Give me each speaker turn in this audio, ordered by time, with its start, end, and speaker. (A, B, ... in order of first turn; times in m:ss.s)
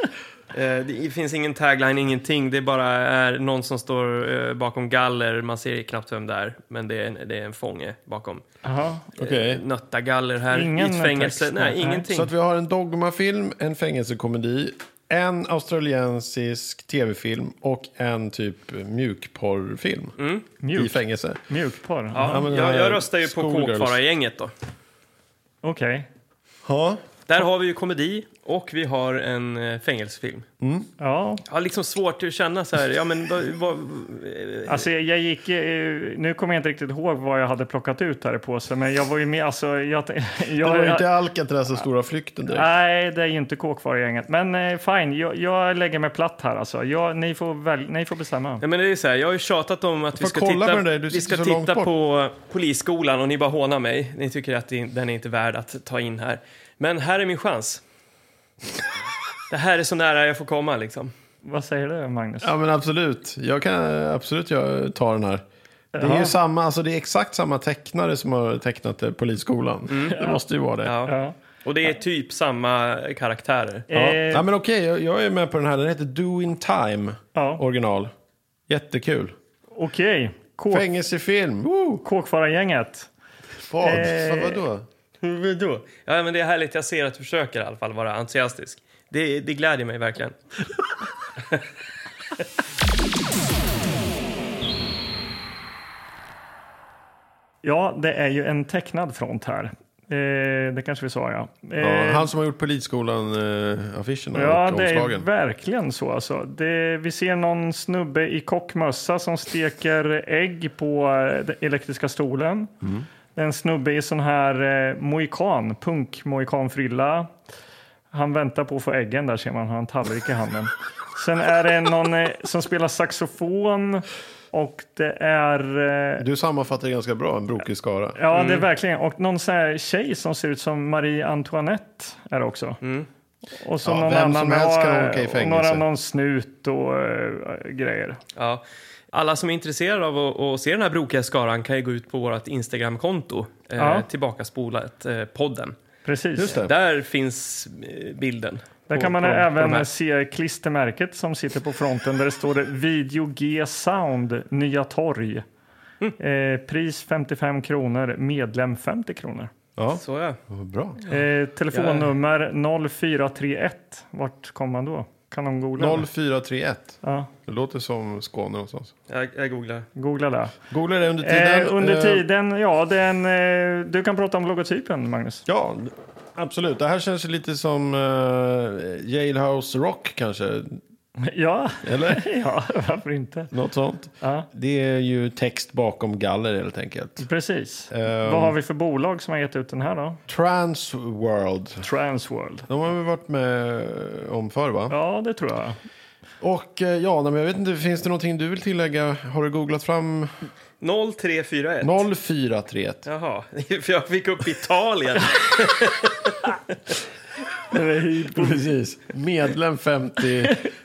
0:00.5-0:08.4 A
0:08.6-0:09.1 B
0:09.2-0:09.6 C
0:09.2-0:12.3 A
0:10.5-0:12.1 B
0:12.1-0:20.2 C
0:20.2-0:20.4 A
0:20.6-0:22.4 B
0:20.7-0:21.4 C
0:22.1-0:24.5 A
0:22.2-0:24.0 C
0:25.6-0:26.1 B
0:26.6-0:27.0 C
0:27.3-0:30.4 A
0:30.6-0:30.9 C
0:31.0-0:31.4 B
0:31.5-0:34.9 A
0:34.7-0:41.0 B
0:40.6-0:42.7 C
0:42.5-0:48.6 B
0:48.6-0:57.8 A
0:50.1-0:51.9 C
0:59.5-1:01.1 A
1:01.4-1:02.5 B
1:02.4-1:10.9 C
1:05.9-1:06.3 B
1:09.9-1:10.2 A
1:10.8-1:13.9 A
1:11.1-1:11.3 B
1:13.9-1:14.4 B
1:13.9-1:18.1 C
1:17.3-1:17.6 B
1:18.7-1:19.3 C
1:19.8-1:20.9 B
1:20.7-1:22.0 C
1:22.0-1:23.1 B
1:23.7-1:24.8 C
1:23.8-1:24.6 B
1:25.2-1:30.4 A
1:37.6-1:42.3 B
1:41.8-1:45.3 C
1:44.3-1:52.7 B
1:52.8-1:53.1 C
1:53.4-1:57.3 B
1:58.1-2:06.2 B
2:06.2-2:08.2 C
2:08.2-2:12.8 B
2:08.3-2:08.6 A
2:12.8-2:13.1 A
2:13.6-2:18.2 B
2:13.8-2:15.8 C
2:18.4-2:25.8 A
2:23.8-2:24.0 B
2:26.0-2:26.5 B
2:26.3-2:26.7 C
2:26.4-2:29.9 A
2:28.9-2:35.4 B
2:36.2-2:39.5 B
2:39.8-2:41.0 C
2:39.9-2:40.4 A
2:41.0-2:46.0 B
2:41.7-2:42.1 A
2:45.8-2:48.9 C
2:47.0-2:47.3 B
2:49.1-2:49.8 A
2:50.0-2:50.6 B
2:50.7-2:52.2 C
2:51.2-2:55.4 B
2:55.5-3:00.8 C
3:01.2-3:03.5 B
3:01.8-3:02.2 C
3:03.5-3:07.2 C
3:04.2-3:04.5 B
3:07.2-3:10.2 B
3:07.9-3:08.6 C
3:10.3-3:11.9 C
3:11.8-3:12.7 B
3:12.7-3:15.0 C
3:14.9-3:15.8 B
3:16.4-3:20.3 C
3:20.8-3:22.0 A
3:21.8-3:23.0 C
3:23.0-3:26.7 A
3:27.7-3:28.6 B
3:28.3-3:30.6 C
3:30.4-3:30.7 B